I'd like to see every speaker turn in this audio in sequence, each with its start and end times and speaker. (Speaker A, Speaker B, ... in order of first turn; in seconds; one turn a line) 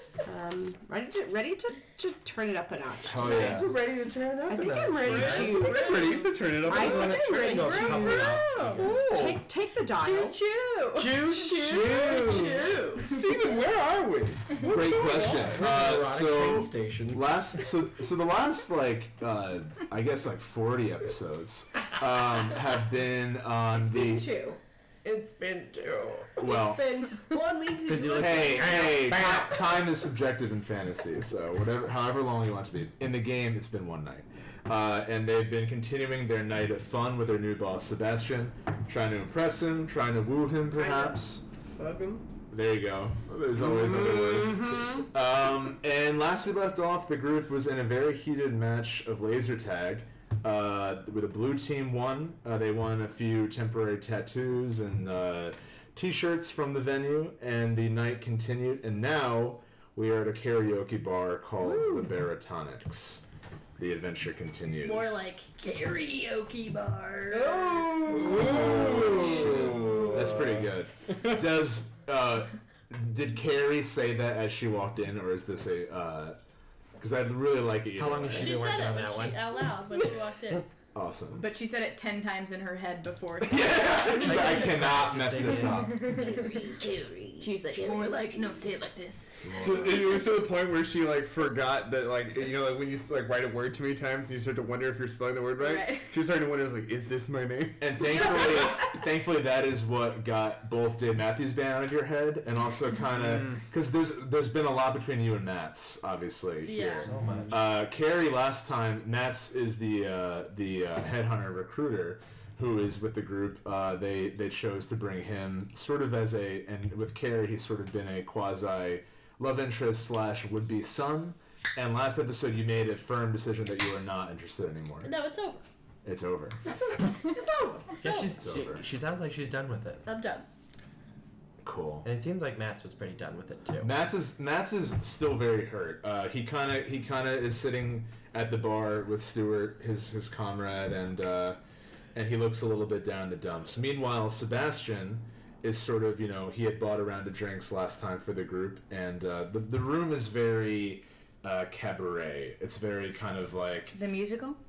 Speaker A: 0.2-3.7
Speaker B: 3.0-3.7
Speaker C: 3.2-9.5
Speaker D: 4.1-5.8
Speaker A: 4.5-13.1
Speaker E: 5.1-6.3
Speaker D: 6.6-9.1
Speaker E: 7.4-8.8
Speaker E: 10.0-11.0
Speaker D: 10.9-12.7
Speaker C: 11.7-12.3
Speaker C: 13.0-15.6
Speaker B: 14.6-24.3
Speaker D: 15.4-17.2
Speaker A: 23.7-29.8
Speaker B: 26.4-27.1
Speaker D: 27.9-29.6
Speaker B: 28.1-41.4
Speaker A: 40.7-41.2
Speaker A: 41.7-42.2
Speaker B: 42.5-63.2
Speaker A: 43.6-45.1
Speaker A: 61.6-62.1
Speaker B: 63.8-65.2
Speaker E: 64.8-67.7
Speaker A: 67.3-70.3
Speaker C: 68.0-70.6
Speaker B: 68.2-76.4
Speaker D: 68.9-69.8
Speaker B: 77.0-78.7
Speaker D: 78.0-79.4
Speaker E: 78.3-80.6
Speaker B: 80.9-81.5
Speaker F: 81.4-84.5
Speaker B: 83.5-86.2
Speaker D: 84.2-85.9
Speaker F: 85.6-86.6
Speaker E: 86.1-88.8
Speaker A: 86.3-86.8
Speaker A: 87.4-88.8
Speaker F: 87.8-88.4
Speaker B: 89.4-90.1
Speaker C: 89.5-98.0
Speaker F: 95.6-96.2
Speaker B: 97.8-125.1
Speaker F: 98.0-98.9
Speaker C: 103.2-103.6
Speaker E: 106.6-107.1
Speaker D: 107.0-107.7
Speaker E: 125.0-125.6
Speaker B: 126.0-126.6
Speaker A: 127.2-128.0
Speaker D: 128.0-130.0
Speaker B: 128.3-128.8
Speaker E: 130.1-130.5
Speaker B: 131.6-132.1
Speaker D: 132.0-133.9
Speaker B: 133.8-141.6
Speaker B: 142.1-154.0
Speaker F: 153.9-154.6